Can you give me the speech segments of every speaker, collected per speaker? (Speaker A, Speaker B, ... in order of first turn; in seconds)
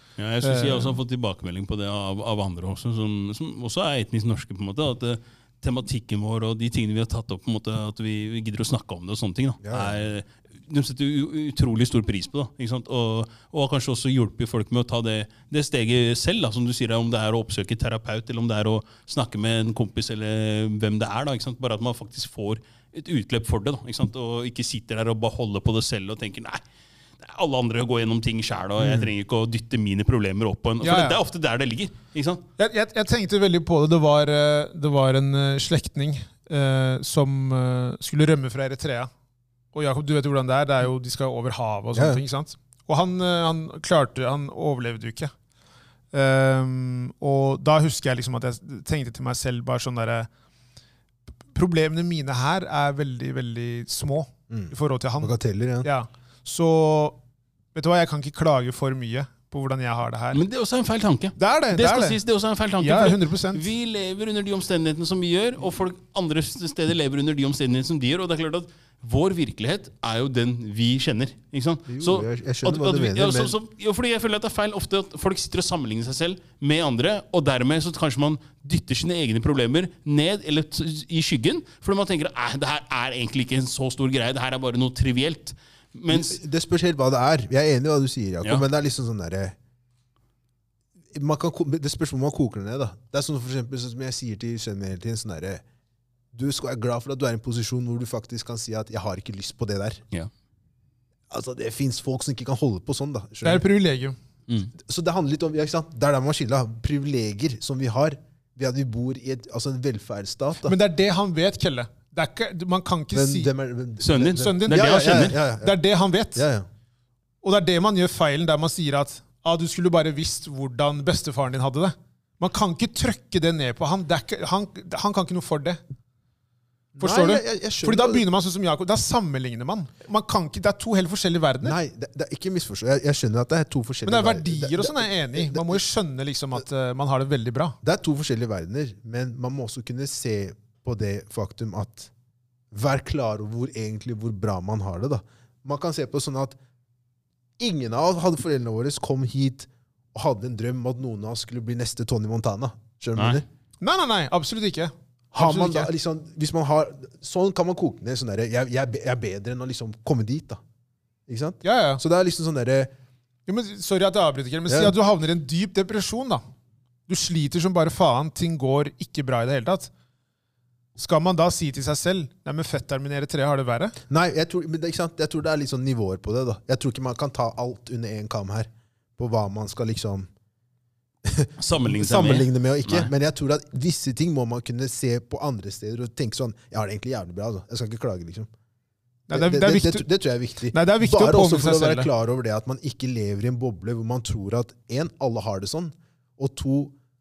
Speaker A: 0.2-26.6, 27.2-32.4, 60.3-86.4, 114.0-115.4, 153.2-153.4, 181.6-183.1
Speaker B: 0.4-1.0, 30.8-31.2, 32.6-39.1, 39.7-45.3, 46.1-50.3, 51.5-57.2, 57.8-60.4, 61.4-62.2, 62.8-63.7, 103.4-104.2, 110.7-113.5, 114.3-116.5, 117.4-125.8, 127.0-131.8, 134.1-137.8, 153.8-155.9, 161.6-162.0, 163.5-166.4, 167.1-169.9, 171.0-173.9, 189.3-190.1, 190.7-192.1
Speaker C: 9.6-10.0, 28.8-29.1, 41.9-42.2, 54.5-55.9, 71.9-73.5, 86.1-89.6, 91.1-95.6, 96.3-100.0, 101.3-103.6, 104.8-110.8, 113.1-115.8, 116.3-116.7, 127.0-128.2, 131.6-135.8, 137.8-142.1, 142.7-146.6, 147.6-153.4, 155.3-160.6, 161.3-162.9, 164.7-164.9, 174.1-180.3, 181.2-188.5, 189.3-196.9